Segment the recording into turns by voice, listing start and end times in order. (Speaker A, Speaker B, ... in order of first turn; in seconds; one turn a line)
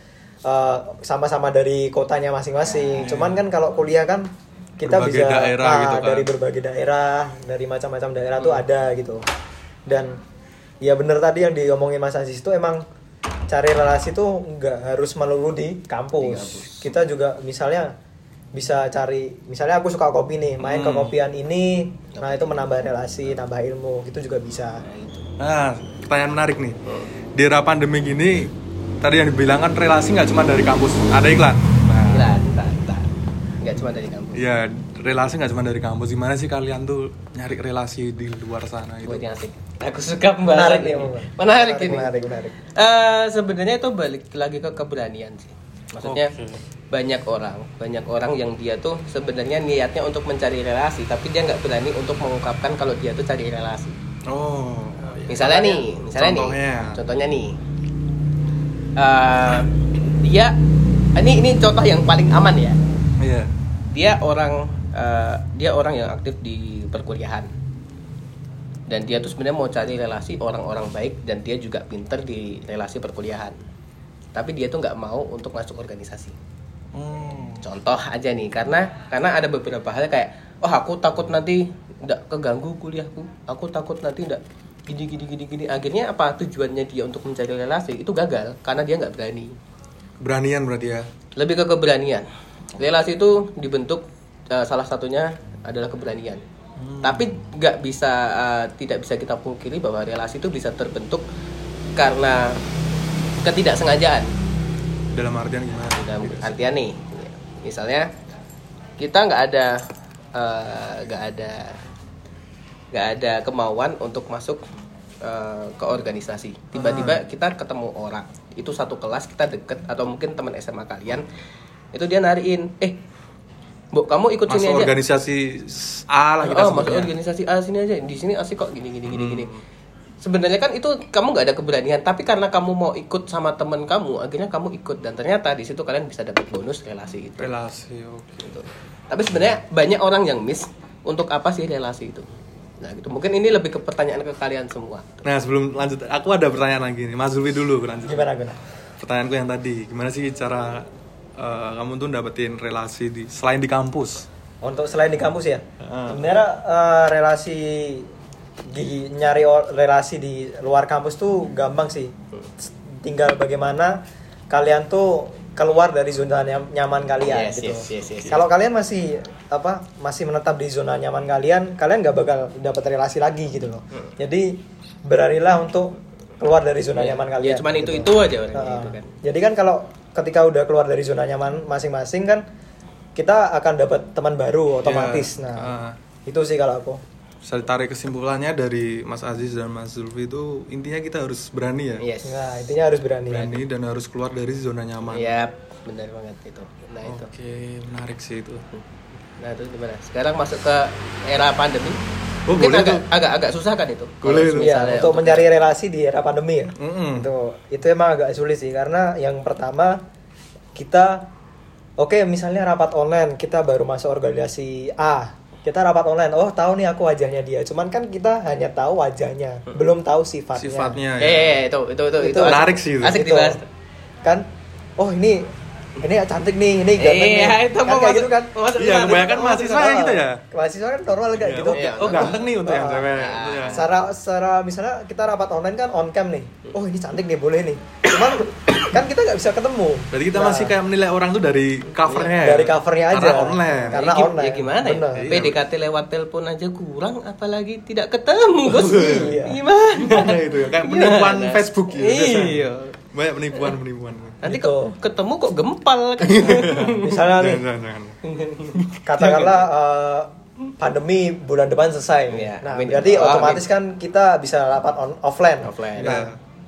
Speaker A: 0.5-4.3
Speaker B: 2.6-3.1
Speaker C: 3.0-3.4
Speaker A: 4.8-9.2
Speaker C: 4.8-6.3
Speaker A: 9.9-10.2
Speaker A: 10.8-12.8
Speaker A: 13.5-17.9
Speaker B: 16.2-16.9
Speaker A: 18.5-24.8
Speaker C: 20.6-21.1
Speaker B: 22.1-22.6
Speaker B: 24.8-25.3
Speaker C: 25.4-26.8
Speaker C: 27.4-32.4
Speaker B: 32.1-33.1
Speaker B: 33.6-34.4
Speaker C: 34.4-39.3
Speaker B: 39.0-46.3
Speaker A: 40.5-42.5
Speaker C: 46.0-46.6
Speaker B: 46.9-54.0
Speaker C: 54.3-57.0
Speaker B: 55.3-57.5
Speaker B: 59.0-60.6
Speaker B: 61.2-62.8
Speaker C: 63.2-63.5
Speaker B: 63.9-67.5
Speaker B: 68.9-73.6
Speaker B: 74.3-76.4
Speaker C: 76.9-77.6
Speaker B: 77.6-89.5
Speaker C: 90.2-91.1
Speaker B: 91.4-96.4
Speaker C: 96.8-97.3
Speaker B: 97.0-101.2
Speaker B: 102.0-102.6
Speaker B: 103.4-104.3
Speaker C: 105.1-106.6
Speaker B: 105.9-108.1
Speaker B: 109.0-109.8
Speaker B: 110.3-111.8
Speaker B: 112.9-114.6
Speaker B: 115.2-121.2
Speaker C: 116.8-117.2
Speaker B: 121.9-123.0
Speaker B: 123.9-124.9
Speaker C: 124.5-127.1
Speaker B: 126.4-129.5
Speaker C: 129.1-129.6
Speaker B: 130.2-137.5
Speaker C: 137.4-138.7
Speaker B: 138.4-142.3
Speaker B: 142.8-145.2
Speaker C: 145.2-148.3
Speaker A: 148.1-148.6
Speaker C: 149.0-154.3
Speaker A: 154.6-158.1
Speaker C: 155.8-156.2
Speaker A: 158.7-164.0
Speaker A: 164.5-182.4
Speaker B: 167.3-168.4
Speaker B: 177.0-179.1
Speaker A: 183.2-185.7
Speaker C: 184.8-186.0
Speaker A: 186.3-187.0
Speaker C: 187.4-192.0
Speaker B: 192.0-192.7
Speaker A: 192.2-193.6
Speaker C: 193.3-195.4
Speaker B: 195.1-197.3
Speaker C: 197.1-198.6
Speaker B: 199.4-202.0
Speaker C: 202.5-203.1
Speaker B: 202.5-205.5
Speaker C: 204.2-204.8
Speaker A: 204.6-210.0
Speaker C: 206.8-207.3
Speaker A: 210.8-211.3
Speaker A: 212.0-221.0
Speaker C: 220.6-221.6
Speaker B: 221.2-223.6
Speaker A: 222.2-223.6
Speaker C: 222.4-223.2
Speaker A: 225.0-228.5
Speaker B: 227.0-229.8
Speaker C: 228.8-230.4
Speaker A: 229.5-233.1
Speaker C: 231.4-233.8
Speaker B: 231.7-232.5
Speaker B: 233.1-233.8
Speaker A: 233.7-240.8
Speaker B: 238.2-238.4
Speaker C: 240.1-244.0
Speaker B: 242.1-242.5
Speaker A: 242.4-245.4
Speaker B: 243.9-253.0
Speaker C: 245.1-245.6
Speaker C: 248.7-249.4
Speaker A: 249.0-249.6
Speaker C: 250.0-254.4
Speaker B: 254.4-257.2
Speaker A: 254.4-254.9
Speaker C: 256.2-259.5
Speaker A: 257.0-257.6
Speaker B: 258.2-258.8
Speaker A: 259.1-266.3
Speaker B: 262.3-263.6
Speaker B: 265.6-266.3
Speaker C: 266.0-266.4